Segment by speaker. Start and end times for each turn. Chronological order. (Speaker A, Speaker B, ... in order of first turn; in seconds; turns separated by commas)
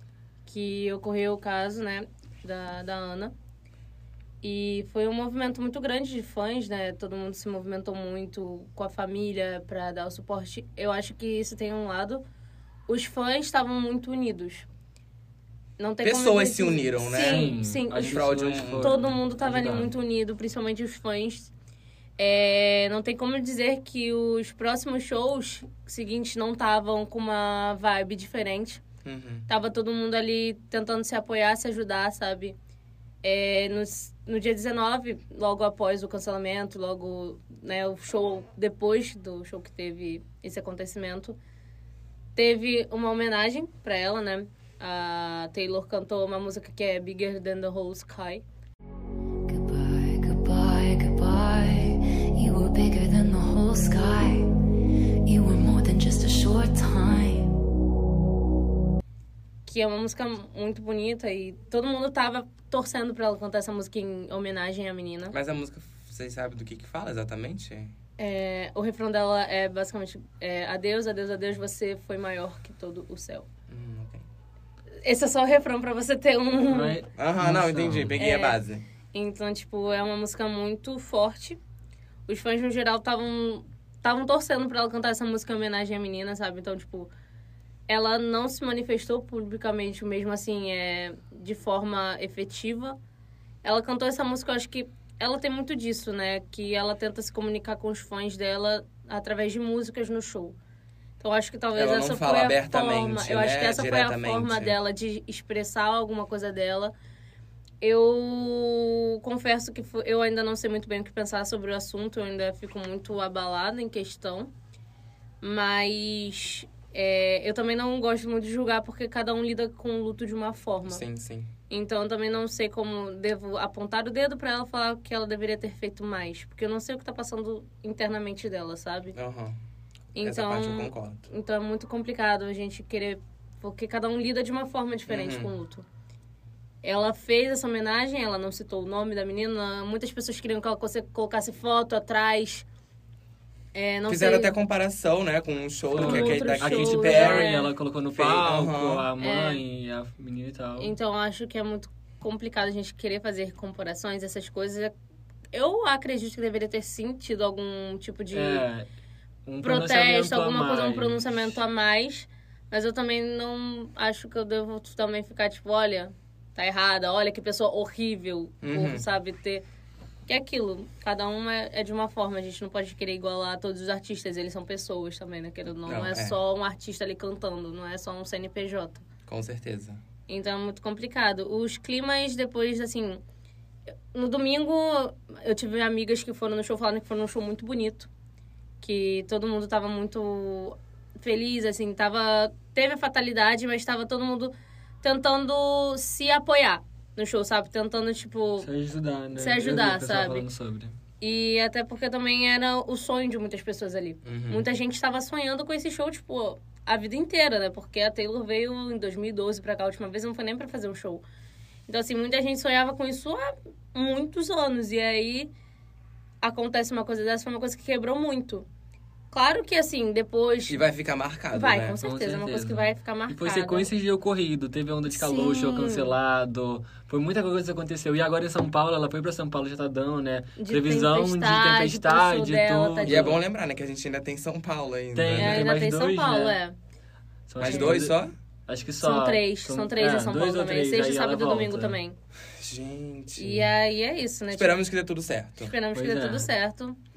Speaker A: 0.5-3.3, Speaker A: 4.4-12.2, Speaker A: 12.9-14.7, Speaker A: 15.8-18.2, Speaker B: 16.0-19.0, Speaker C: 17.2-19.9, Speaker A: 18.8-21.5, Speaker A: 22.2-28.8, Speaker B: 29.0-29.5, Speaker A: 29.5-32.5, Speaker A: 33.2-41.4, Speaker A: 42.4-48.4, Speaker D: 49.5-54.5, Speaker D: 55.2-57.6, Speaker A: 59.6-65.3, Speaker B: 65.3-67.9, Speaker A: 68.2-73.5, Speaker B: 73.7-74.2, Speaker A: 75.0-77.0, Speaker C: 76.7-78.1, Speaker B: 77.2-78.8, Speaker A: 78.2-78.6, Speaker A: 79.1-81.6, Speaker A: 82.3-87.1, Speaker A: 87.9-93.0, Speaker A: 93.6-100.6, Speaker A: 101.2-106.9, Speaker B: 101.7-104.8, Speaker A: 107.8-114.5, Speaker A: 115.4-121.0, Speaker B: 120.9-121.5, Speaker A: 121.7-129.1, Speaker B: 129.1-129.6, Speaker A: 130.1-135.8, Speaker B: 130.2-131.2, Speaker B: 135.1-135.5, Speaker A: 136.8-142.7, Speaker A: 143.7-144.5, Speaker B: 144.1-147.5, Speaker C: 145.9-150.9, Speaker A: 146.0-147.7, Speaker B: 148.1-149.1, Speaker A: 149.2-149.6, Speaker A: 150.8-154.9, Speaker A: 155.5-158.6, Speaker C: 158.3-158.9, Speaker C: 159.4-161.4, Speaker A: 159.6-169.6, Speaker B: 168.6-169.1, Speaker A: 170.3-179.0, Speaker B: 175.8-176.4, Speaker B: 179.3-180.0, Speaker A: 180.3-183.2, Speaker A: 184.1-188.1, Speaker A: 188.8-198.7, Speaker C: 198.6-200.9, Speaker A: 199.3-200.4, Speaker A: 201.2-211.2, Speaker B: 204.2-204.6, Speaker A: 211.9-215.5, Speaker A: 216.4-218.7, Speaker A: 219.3-220.8, Speaker B: 220.7-221.9, Speaker A: 221.5-223.9, Speaker C: 222.0-233.4, Speaker A: 225.1-226.1, Speaker A: 230.6-233.4, Speaker B: 233.0-235.7, Speaker C: 235.1-236.6, Speaker A: 235.3-236.8, Speaker C: 237.5-241.9, Speaker B: 237.6-238.3, Speaker A: 237.6-237.9, Speaker A: 239.0-242.2, Speaker B: 242.6-243.7, Speaker A: 243.3-244.8, Speaker B: 244.5-245.7, Speaker A: 245.6-247.0, Speaker C: 245.9-246.5